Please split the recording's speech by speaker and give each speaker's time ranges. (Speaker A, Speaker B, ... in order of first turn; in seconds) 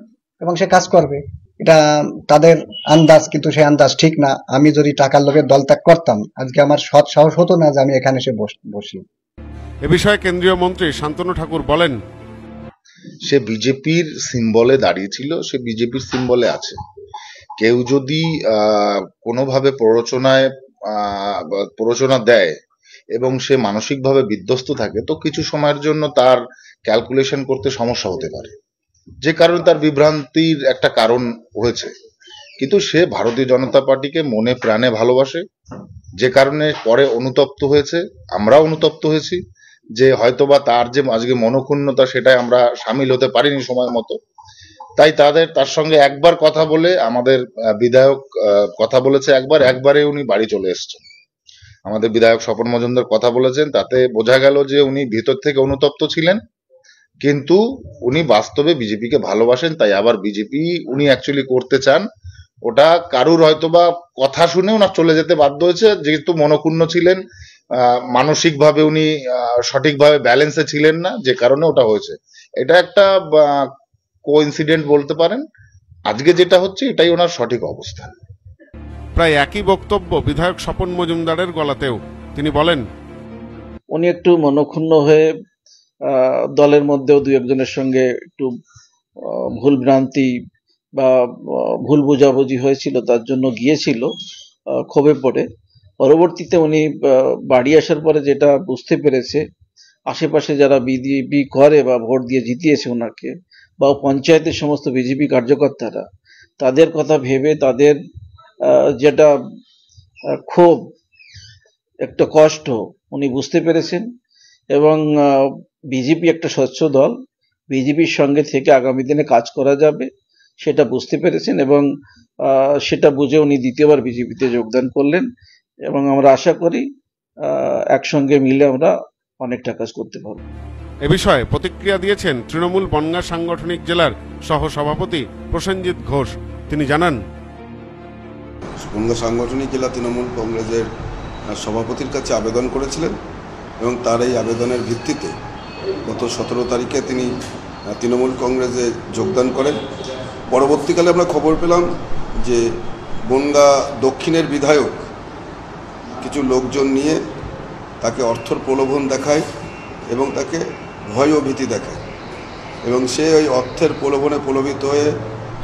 Speaker A: 0.4-9.0
Speaker B: 9.8-12.0, 79.2-82.8, 131.0-137.2
Speaker C: 13.2-16.8, 17.6-22.5, 23.1-28.5, 29.2-31.9, 32.6-35.4, 36.2-39.4, 40.0-44.2, 45.0-51.0, 51.9-56.4, 57.2-62.0, 62.6-67.2, 68.1-73.7, 74.2-75.4, 76.1-78.1
Speaker D: 83.9-85.3, 86.1-88.5, 89.3-90.3, 91.0-94.1, 94.7-95.5, 96.0-99.4, 100.1-106.1, 106.6-108.0, 108.6-109.3, 110.4-110.9, 112.0-114.1, 114.7-117.2, 117.7-121.9, 122.4-125.3, 125.9-126.9, 127.4-130.4
Speaker E: 138.8-140.9, 141.5-143.1, 143.8-145.3, 146.1-147.3, 147.9-149.8, 150.5-151.9, 153.3-155.1, 156.2-157.2, 158.0-159.4, 160.1-162.0, 162.8-165.1